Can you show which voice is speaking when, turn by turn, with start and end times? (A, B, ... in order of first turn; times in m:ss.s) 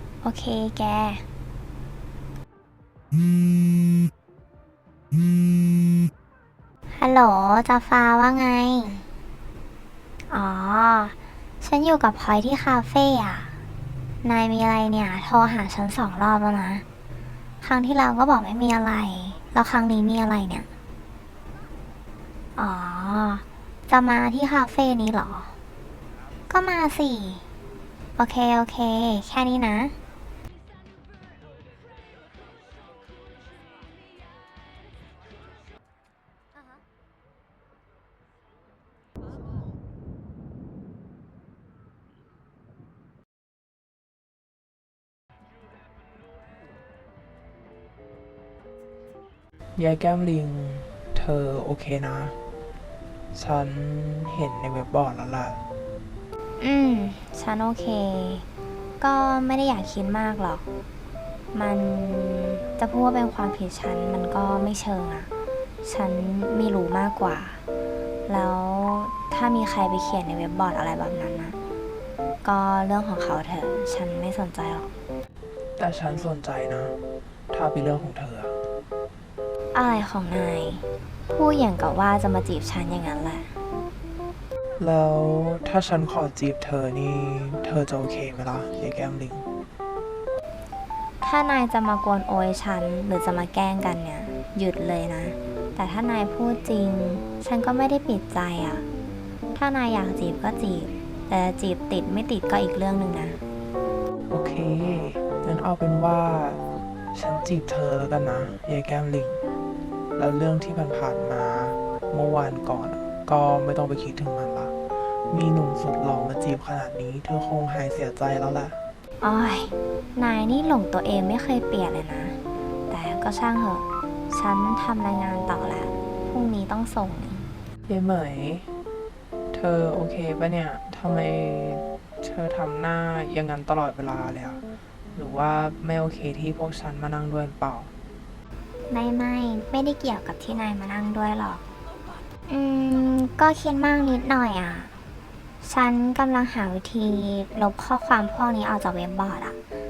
0:00.2-0:01.3 A
0:06.9-0:09.0 A
0:10.3-0:13.6 A
0:14.2-0:16.8 A
0:17.6-0:20.7 A
0:22.6-0:25.6 A
0:26.5-0:27.5 A
0:28.2-0:30.0 A
0:49.8-0:52.4 B
0:53.3-0:55.6 B
0:56.6-0:58.5 A
0:59.0-1:00.7 A
1:01.5-1:05.3 A
1:05.8-1:07.6 A
1:08.3-1:11.6 A
1:12.4-1:14.9 A
1:15.8-1:17.0 B
1:17.5-1:18.6 B
1:19.7-1:23.5 A
1:24.8-1:29.5 B
1:31.2-1:38.9 A
1:39.6-1:43.4 A
1:44.3-1:46.6 B
1:47.1-1:49.4 B
1:50.2-1:54.7 B
1:55.3-1:58.8 B
1:59.2-2:07.5 A
2:07.9-2:08.7 B
2:09.5-2:14.6 B
2:15.2-2:17.9 B
2:18.9-2:21.6 A
2:22.5-2:24.9 A
2:25.6-2:29.6 A